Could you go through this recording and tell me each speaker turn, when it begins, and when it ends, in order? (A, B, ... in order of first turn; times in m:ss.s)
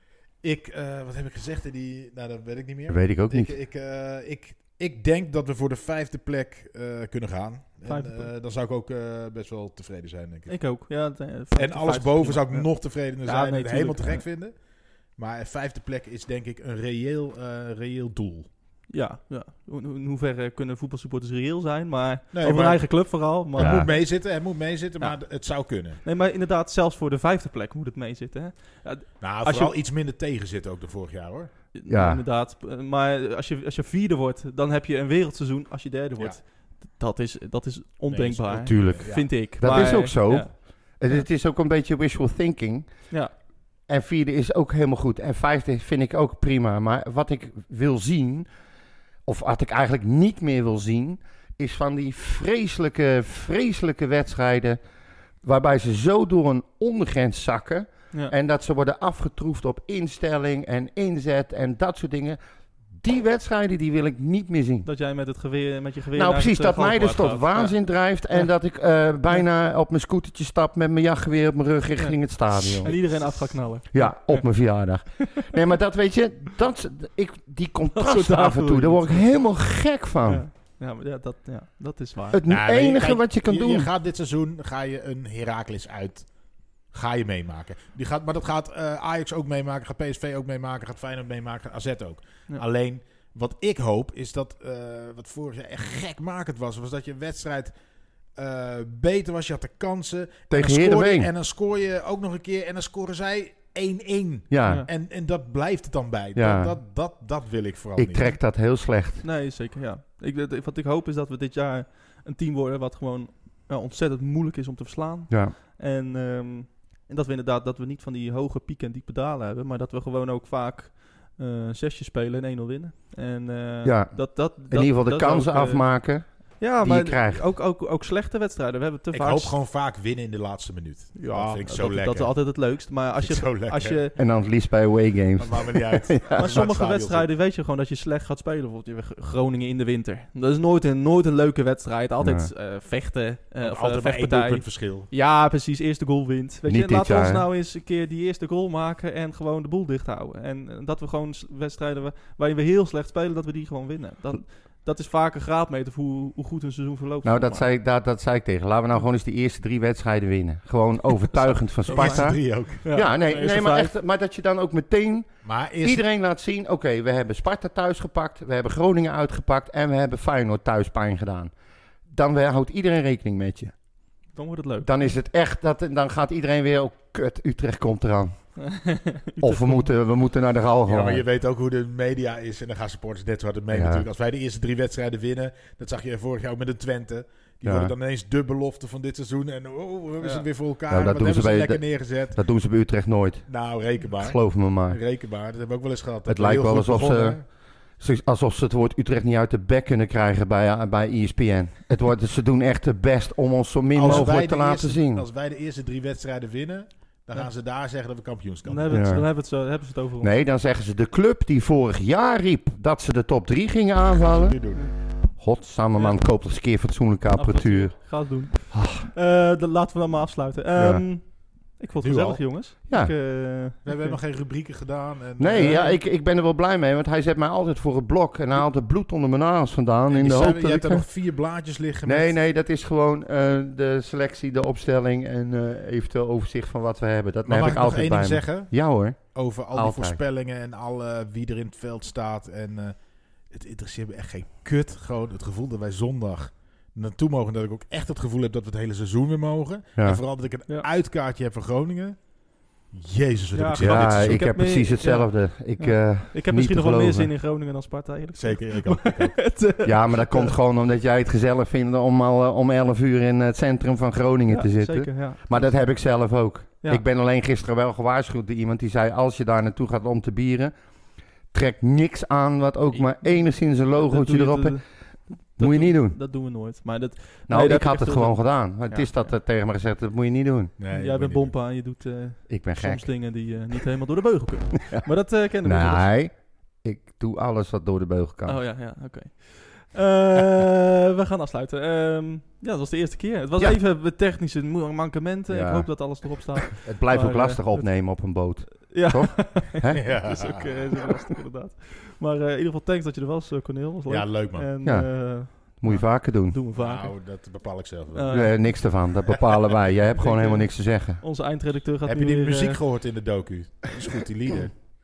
0:00.4-0:10.8 A
0:02.9-0:03.5 B
0:07.8-0:08.3 C
0:10.5-0:14.2 C
0:11.5-0:18.5 A
0:18.9-0:24.2 C
0:22.3-0:26.0 A
0:23.6-0:23.9 B
0:26.0-0:29.7 C
0:29.2-0:31.5 A
0:31.7-0:41.2 C
0:31.9-0:32.2 B
0:38.1-0:40.0 A
0:38.5-0:43.1 B
0:43.8-0:48.5 B
0:49.2-0:54.8 B
0:55.4-1:02.4 B
1:02.9-1:04.9 B
1:04.8-1:08.6 C
1:06.1-1:20.4 B
1:12.0-1:15.1 C
1:17.9-1:19.6 C
1:20.2-1:22.4 C
1:22.3-1:23.9 B
1:22.5-1:37.7 A
1:38.3-1:48.4 A
1:40.5-1:41.3 B
1:44.5-1:44.8 B
1:46.3-1:46.8 B
1:48.0-1:49.2 B
1:49.2-2:09.6 C
1:55.3-1:55.5 B
2:03.8-2:07.5 B
2:09.1-2:14.0 A
2:11.2-2:14.2 C
2:14.2-2:16.6 B
2:15.4-2:17.3 A
2:16.3-2:37.6 C
2:22.2-2:22.5 B
2:23.6-2:25.1 A
2:26.7-2:27.5 B
2:37.2-2:51.5 B
2:41.4-2:44.0 C
2:41.9-2:42.8 A
2:45.4-2:46.0 A
2:52.0-2:53.7 B
2:54.3-2:55.0 C
2:54.8-2:58.8 B
2:58.6-2:59.9 C
2:59.4-3:01.2 B
3:00.9-3:12.4 A
3:03.7-3:04.0 B
3:07.6-3:07.9 B
3:10.2-3:10.5 C
3:10.9-3:15.0 B
3:13.5-3:17.4 A
3:16.3-3:25.2 B
3:23.9-3:29.0 A
3:28.6-3:30.3 C
3:28.9-3:29.3 B
3:30.2-3:34.6 B
3:34.2-3:34.9 A
3:35.4-3:39.1 B
3:35.9-3:36.2 C
3:37.3-3:44.2 C
3:40.8-3:41.1 B
3:42.0-3:42.6 A
3:42.9-3:43.2 B
3:43.8-3:45.9 A
3:45.4-3:51.0 B
3:45.5-3:46.0 C
3:50.1-3:52.3 A
3:52.0-4:00.2 B
3:57.4-4:03.0 A
4:03.5-4:14.5 A
4:13.5-4:20.5 C
4:13.8-4:17.3 B
4:18.3-4:19.5 A
4:19.8-4:30.7 B
4:24.5-4:25.9 C
4:31.5-4:36.2 B
4:32.9-4:39.4 C
4:37.5-4:40.7 B
4:40.8-4:41.5 A
4:40.9-4:46.1 C
4:42.5-4:43.5 B
4:45.6-4:48.6 B
4:48.4-5:07.2 C
4:55.5-5:00.0 B
4:59.9-5:01.0 A
5:04.1-5:04.7 A
5:04.8-5:06.6 B
5:06.8-5:08.6 A
5:08.1-5:09.0 C
5:08.3-5:11.2 B
5:10.1-5:12.8 C
5:12.0-5:14.8 A